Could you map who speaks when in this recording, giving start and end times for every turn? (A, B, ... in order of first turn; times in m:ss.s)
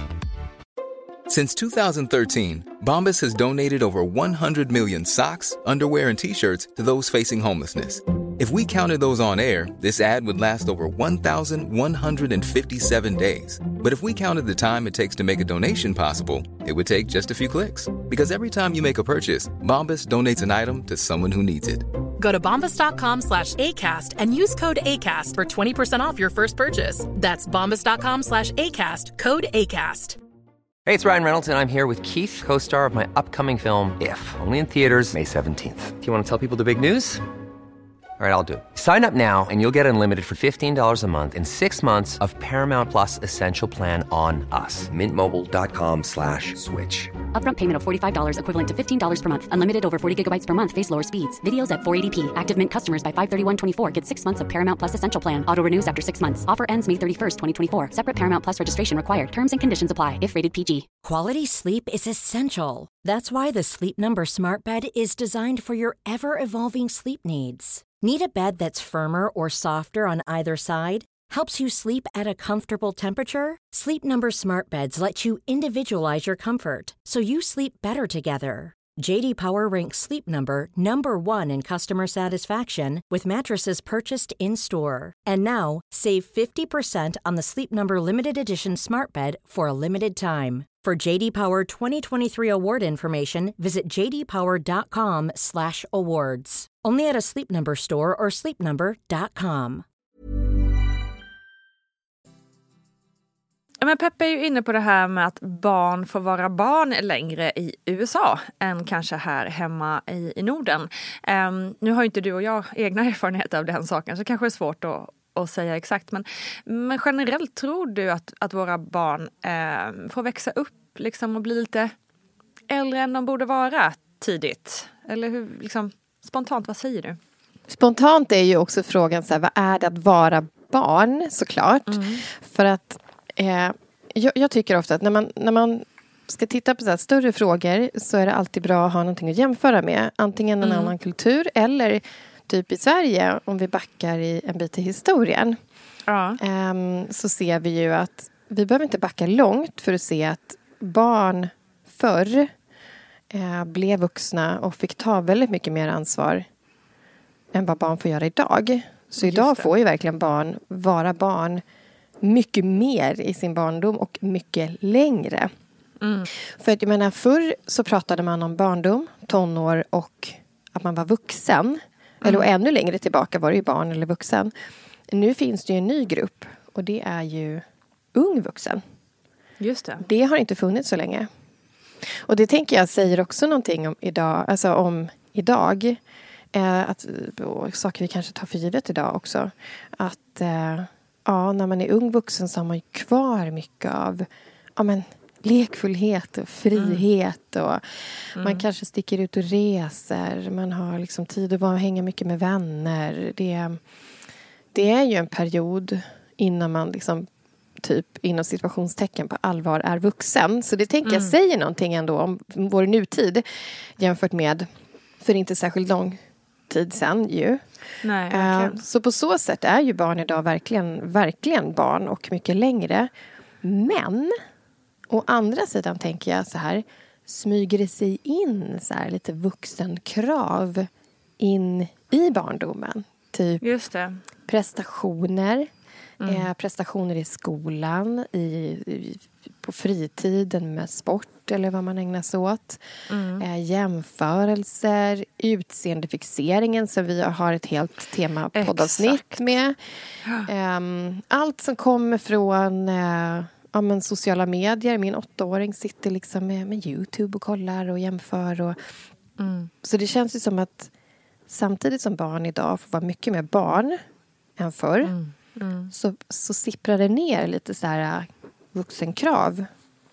0:01.3-0:21.8 A
0:22.2-0:30.2 B
0:30.8-0:37.2 C
0:38.2-0:47.1 C
0:47.3-1:00.9 D
1:01.0-1:39.8 E
1:43.8-2:01.9 F
2:02.7-2:07.2 F
2:07.7-2:25.5 G
2:11.9-2:12.2 F
2:20.6-2:20.9 F
2:26.1-2:26.4 F
2:26.4-2:32.5 G
2:33.3-2:36.4 G
2:37.5-2:41.6 G
2:39.2-2:39.7 F
2:42.2-2:45.5 G
2:46.0-2:46.3 F
2:46.6-2:54.5 G
2:52.2-2:52.5 F
2:55.1-2:57.6 G
2:58.1-2:58.8 G
2:59.6-3:00.0 F
3:00.0-3:01.2 G
3:02.3-3:06.0 G
3:06.5-3:14.2 G
3:14.8-3:17.8 G
3:16.7-3:17.0 F
3:18.3-3:18.6 F
3:18.4-3:23.8 G
3:24.7-3:27.2 G
3:27.8-3:33.4 G
3:31.0-3:31.3 F
3:34.0-3:34.6 G
3:35.2-3:36.2 G
3:36.7-3:37.6 G
3:38.0-3:38.8 F
3:38.3-3:43.1 G
3:43.6-3:44.3 G
3:45.1-3:50.9 G
3:51.4-3:53.6 G
3:53.6-3:54.2 F
3:54.5-3:55.6 G
3:56.2-3:56.5 F
3:56.2-4:02.8 G
4:03.1-4:03.4 F
4:03.4-4:09.8 G
4:08.5-4:09.4 F
4:10.5-4:18.7 G
4:19.4-4:19.7 F
4:19.8-4:20.9 G
4:21.5-4:24.0 G
4:24.6-4:25.1 G
4:25.0-4:25.9 F
4:25.9-4:29.6 G